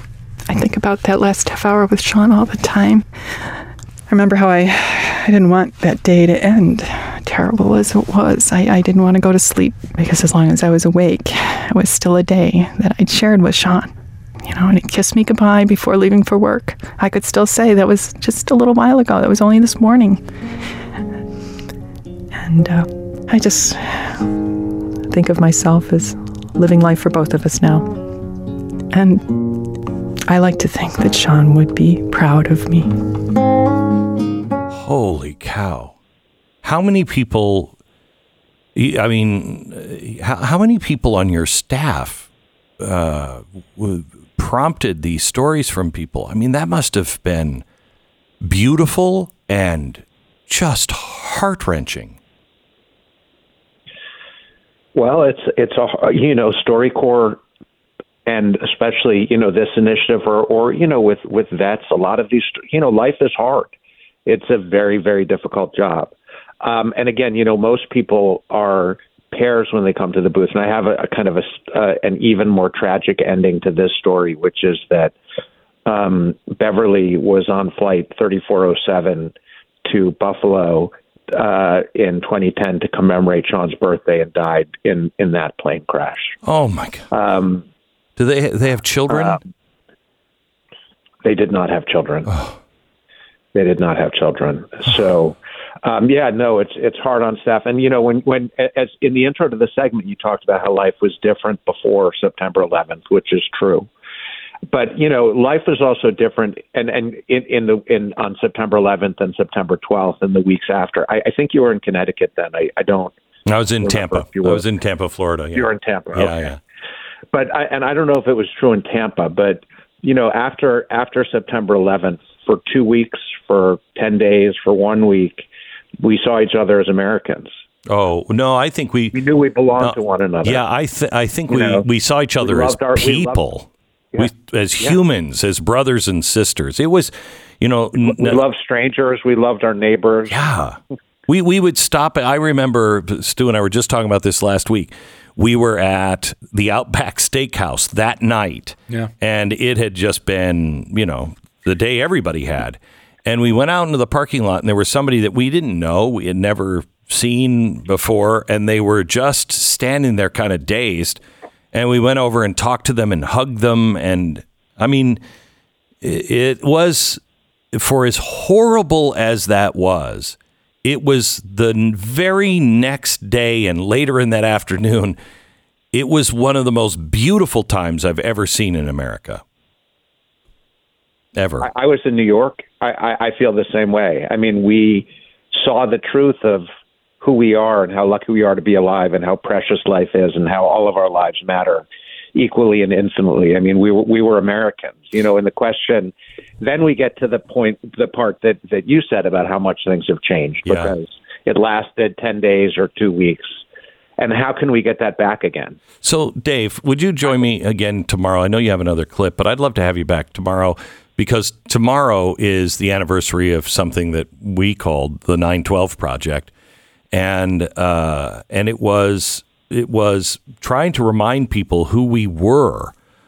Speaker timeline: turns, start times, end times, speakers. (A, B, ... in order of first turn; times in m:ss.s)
0:00.5-0:03.6 A
0:04.1-0:13.9 A
0:14.4-0:20.2 A
0:22.3-0:24.4 A
0:25.1-0:27.9 A
0:28.9-0:29.6 A
0:30.3-0:32.9 A
0:34.7-0:36.0 B
0:36.6-0:37.8 B
0:38.7-0:42.3 B
0:42.8-0:47.6 B
0:48.4-0:52.2 B
0:54.9-0:57.4 C
0:58.2-1:03.7 C
1:04.2-1:15.1 C
1:15.8-1:19.3 C
1:19.8-1:26.3 C
1:26.4-1:27.1 B
1:27.1-1:27.6 C
1:28.2-1:29.4 B
1:29.1-1:29.4 C
1:31.2-1:32.3 C
1:32.3-1:32.6 B
1:33.5-1:43.9 C
1:44.7-1:53.1 C
1:53.4-1:56.6 B
1:53.8-1:54.6 C
1:55.5-1:56.4 C
1:57.3-2:05.4 C
2:06.0-2:07.5 C
2:07.9-2:09.2 B
2:09.1-2:10.6 C
2:09.8-2:18.4 B
2:11.5-2:11.8 C
2:12.4-2:13.4 C
2:18.0-2:20.4 C
2:20.3-2:41.2 B
2:41.7-2:45.2 B
2:46.0-2:47.2 B
2:47.7-2:55.2 B
2:55.9-2:59.4 B
3:01.4-3:01.7 B
3:01.6-3:06.7 C
3:07.2-3:23.6 C
3:20.6-3:21.0 B
3:24.2-3:25.8 C
3:26.0-3:36.5 B
3:37.1-3:42.9 B